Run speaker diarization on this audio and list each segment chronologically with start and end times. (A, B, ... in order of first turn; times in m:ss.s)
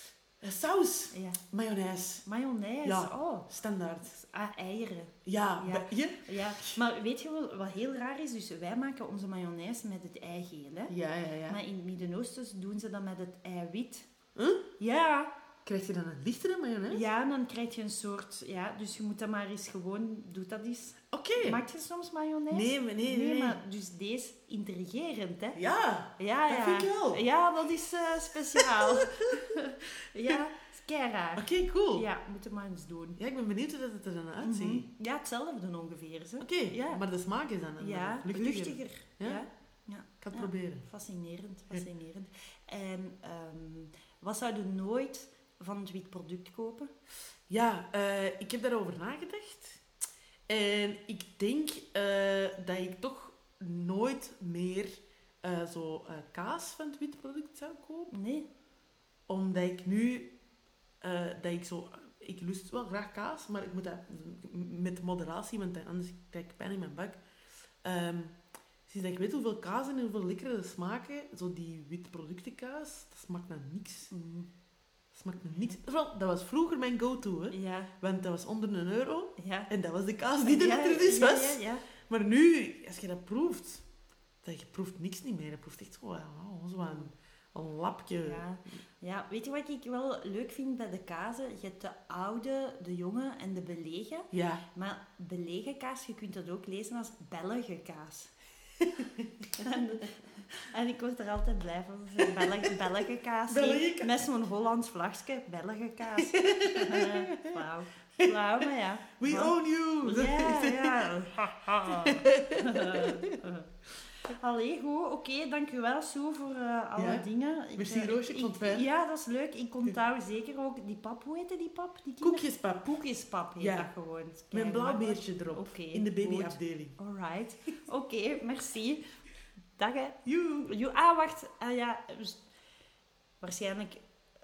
0:00.4-0:02.2 A
0:01.1-0:01.4 B
0:02.2-0:03.5 B
0:02.8-0:04.1 A
0:04.0-0:11.0 B
0:05.2-0:06.8 A
0:10.9-0:11.6 A
0:11.5-0:14.1 B
0:14.4-0:14.7 A
0:14.8-0:15.3 B
0:15.6-0:17.0 A
0:16.9-0:25.6 B
0:21.1-0:21.6 A
0:22.5-0:23.6 A
0:25.6-0:27.2 A
0:26.2-0:33.2 B
0:28.5-0:29.5 A
0:31.4-0:32.0 A
0:33.2-0:34.9 A
0:34.4-0:37.0 B
0:36.4-0:39.4 A
0:37.8-0:46.9 B
0:40.2-0:40.9 A
0:47.5-0:49.8 A
0:50.5-0:58.1 A
0:58.1-0:58.5 B
0:59.3-1:00.3 A
1:01.0-1:07.2 A
1:07.8-1:14.1 A
1:14.1-1:14.5 B
1:15.1-1:23.8 A
1:17.5-1:17.9 B
1:19.4-1:19.7 B
1:20.4-1:21.9 B
1:24.4-1:28.4 A
1:26.8-1:27.1 B
1:28.2-1:38.3 B
1:34.3-1:34.6 A
1:38.8-1:39.6 A
1:39.6-1:53.7 B
1:42.2-1:42.8 A
1:43.5-1:44.1 A
1:46.2-1:47.6 A
1:48.2-1:53.4 A
1:54.2-2:09.0 B
1:57.0-1:58.9 A
2:02.2-2:03.1 A
2:03.6-2:03.9 A
2:04.5-2:07.0 A
2:09.8-2:12.4 B
2:10.2-2:10.7 A
2:13.4-2:14.0 B